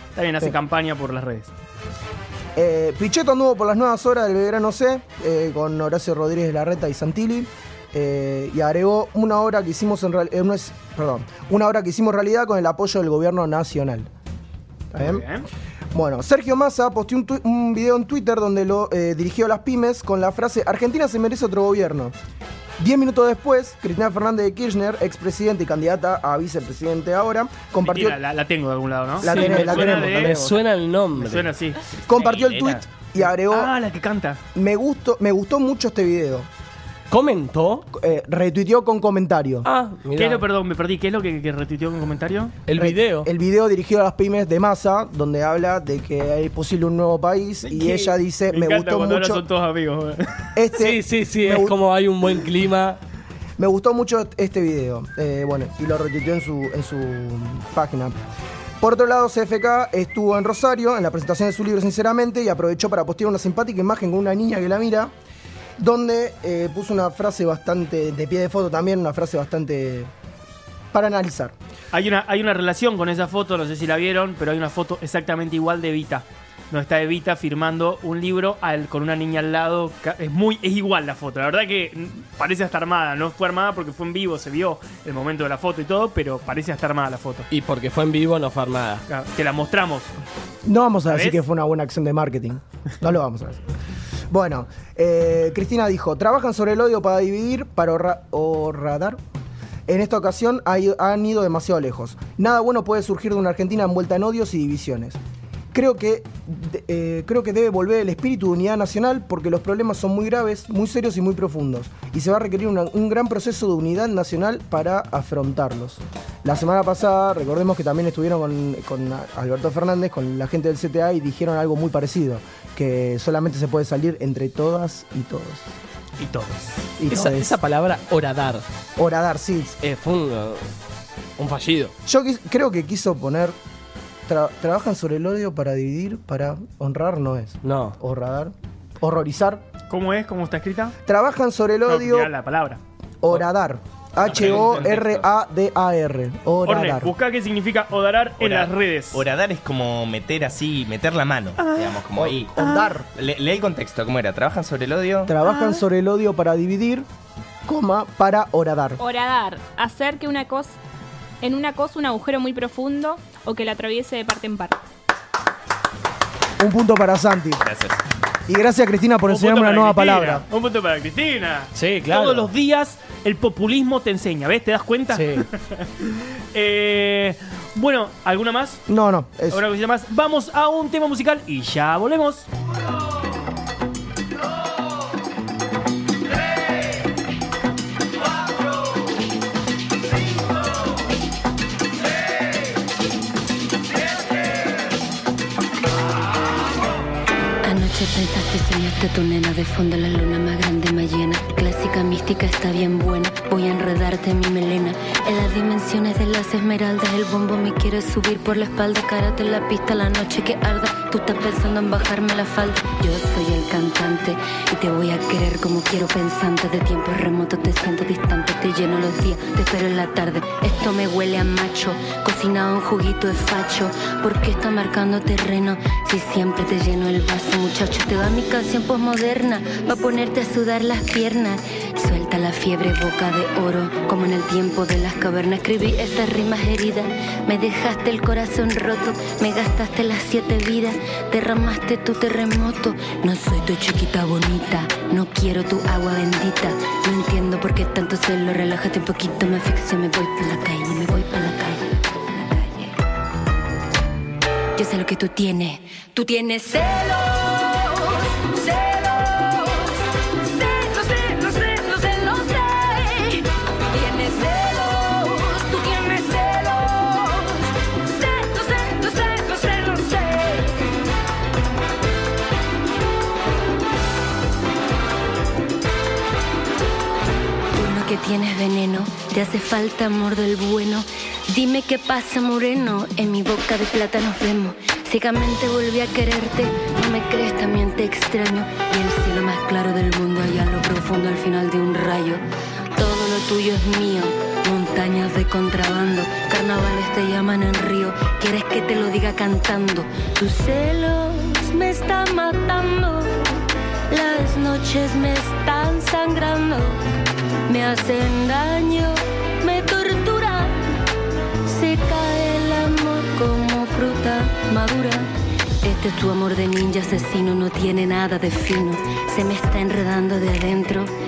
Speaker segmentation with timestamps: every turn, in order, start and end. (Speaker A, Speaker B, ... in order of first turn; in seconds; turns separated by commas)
Speaker A: 0.1-1.5, Speaker B: 2.5-14.1, Speaker B: 14.9-15.2, Speaker A: 15.0-15.4, Speaker B: 15.9-22.1, Speaker B: 22.8-28.2, Speaker A: 27.8-30.6, Speaker C: 29.2-31.5, Speaker B: 29.2-30.4, Speaker A: 31.1-34.4, Speaker B: 32.1-33.7, Speaker D: 32.1-32.8, Speaker B: 34.5-36.5, Speaker C: 37.1-37.9, Speaker B: 37.9-39.7, Speaker C: 39.6-40.4, Speaker A: 40.1-42.6, Speaker C: 42.7-43.3, Speaker B: 42.7-49.4, Speaker A: 47.6-50.5, Speaker B: 50.5-51.8, Speaker C: 50.8-53.0, Speaker B: 53.6-58.2, Speaker B: 58.8-65.1, Speaker B: 65.8-70.1, Speaker B: 70.9-71.5, Speaker A: 71.9-87.5, Speaker C: 87.5-89.0, Speaker A: 89.1-90.1, Speaker B: 90.6-93.6, Speaker A: 91.1-91.4, Speaker B: 94.3-99.2, Speaker B: 99.9-105.2, Speaker B: 105.7-125.7, Speaker A: 126.2-126.8, Speaker B: 127.0-127.6, Speaker C: 127.1-128.6, Speaker B: 129.0-129.8, Speaker C: 129.8-130.7, Speaker C: 131.4-131.9, Speaker B: 132.1-133.5, Speaker B: 134.3-139.6, Speaker C: 137.6-138.0, Speaker A: 139.9-140.9, Speaker B: 141.1-142.3, Speaker A: 141.8-142.8, Speaker B: 143.2-147.1, Speaker A: 144.2-145.2, Speaker D: 144.3-145.2, Speaker A: 146.6-149.2, Speaker D: 148.4-152.6, Speaker A: 151.6-152.0, Speaker B: 152.2-153.0, Speaker A: 152.6-152.9, Speaker D: 153.1-155.3, Speaker B: 155.3-157.1, Speaker A: 155.4-155.8, Speaker B: 157.7-159.0, Speaker E: 159.0-160.8, Speaker E: 161.4-164.8, Speaker B: 166.6-167.6, Speaker D: 167.6-168.0, Speaker B: 168.5-170.4, Speaker A: 169.2-178.8, Speaker C: 171.7-172.5, Speaker C: 175.1-175.5, Speaker B: 178.9-179.6, Speaker A: 179.5-182.5, Speaker F: 197.6-252.9, Speaker F: 254.8-270.9, Speaker F: 277.7-292.4, Speaker F: 292.9-307.0, Speaker F: 307.7-310.9, Speaker F: 311.6-315.3, Speaker F: 315.8-321.1